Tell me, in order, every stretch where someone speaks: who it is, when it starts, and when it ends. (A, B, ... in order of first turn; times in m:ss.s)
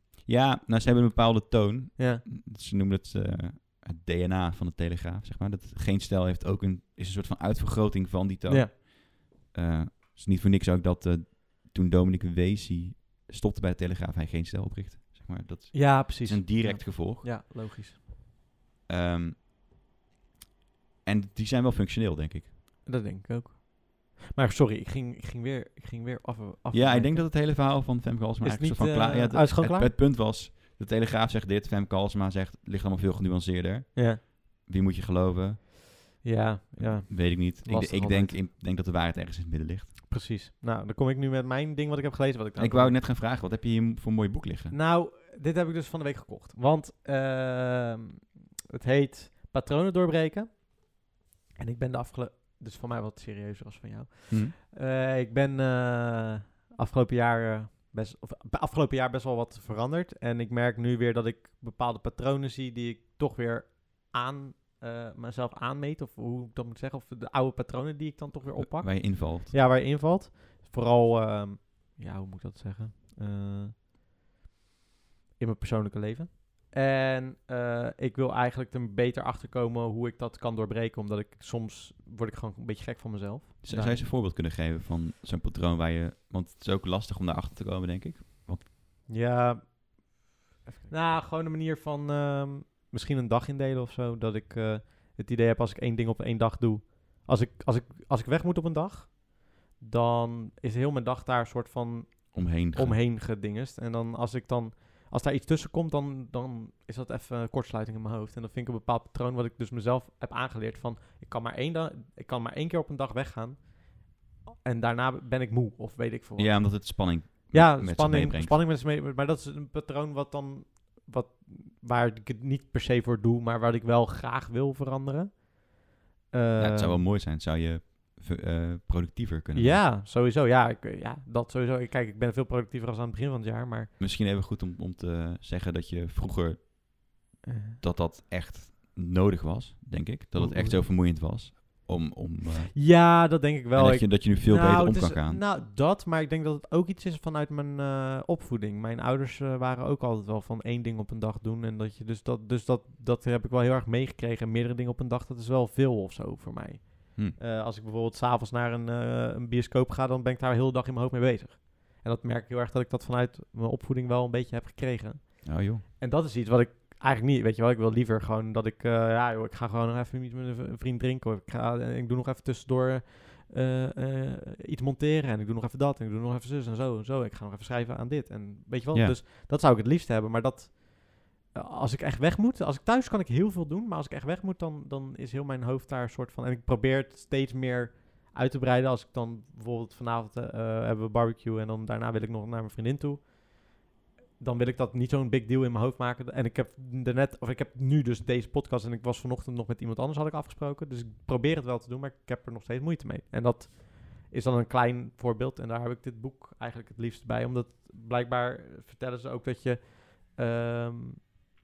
0:00.2-0:17.3 A
0:02.0-0:02.2 B
0:08.5-0:08.7 B
0:15.7-0:18.0 B
0:18.9-0:19.4 A
0:21.0-0:22.5 A
0:22.9-0:27.3 B
0:26.7-0:36.2 A
0:28.4-0:29.9 B
0:34.0-0:34.2 B
0:36.2-0:38.4 B
0:36.8-0:40.0 A
0:40.1-0:43.0 B
0:42.6-0:44.8 A
0:44.7-0:51.0 B
0:51.6-1:13.8 B
0:54.3-0:54.6 A
1:08.6-1:09.5 A
1:15.4-1:24.0 B
1:23.6-1:28.7 A
1:29.1-1:30.1 B
1:30.8-2:07.0 B
1:42.3-1:43.0 A
1:56.4-1:58.6 A
2:06.6-2:09.8 A
2:09.6-2:13.9 B
2:14.0-2:17.2 A
2:17.5-2:17.8 B
2:17.8-2:25.4 A
2:20.4-2:20.8 B
2:22.8-3:13.8 B
2:45.4-2:45.8 A
3:14.4-3:31.4 B